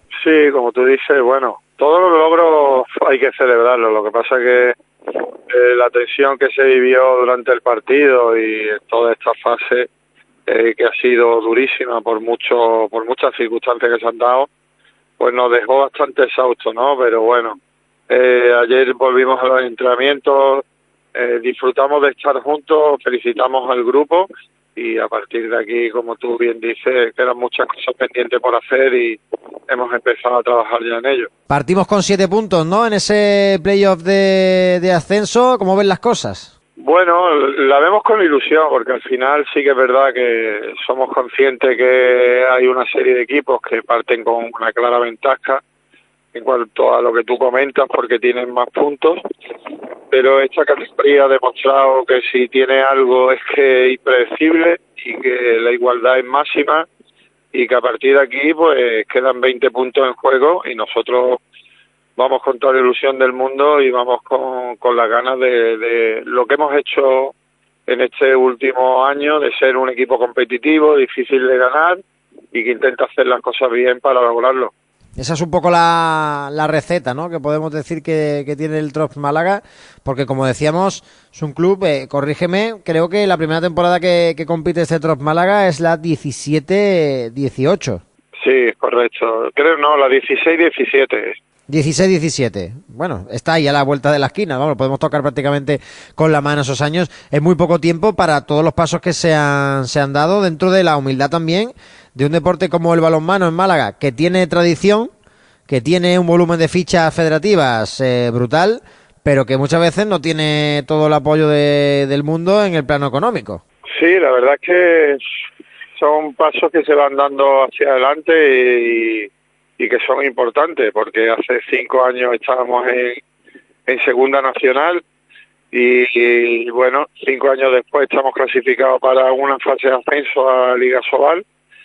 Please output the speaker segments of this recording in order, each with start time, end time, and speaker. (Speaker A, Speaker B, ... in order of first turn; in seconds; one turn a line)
Speaker A: 0.2-9.9
Speaker A: 10.5-14.5
Speaker A: 15.2-17.6
Speaker A: 18.1-20.6
Speaker A: 21.1-31.3
Speaker B: 31.5-36.5
Speaker A: 36.8-45.6
Speaker A: 46.3-49.2
Speaker A: 50.1-56.9
Speaker A: 57.5-61.4
Speaker A: 62.2-67.3
Speaker A: 67.9-72.0
Speaker A: 72.5-74.7
Speaker B: 75.2-88.0
Speaker A: 88.4-91.4
Speaker B: 91.7-105.1
Speaker B: 105.7-113.6
Speaker A: 113.9-115.2
Speaker A: 116.0-123.2
Speaker A: 123.9-125.0
Speaker A: 125.7-131.4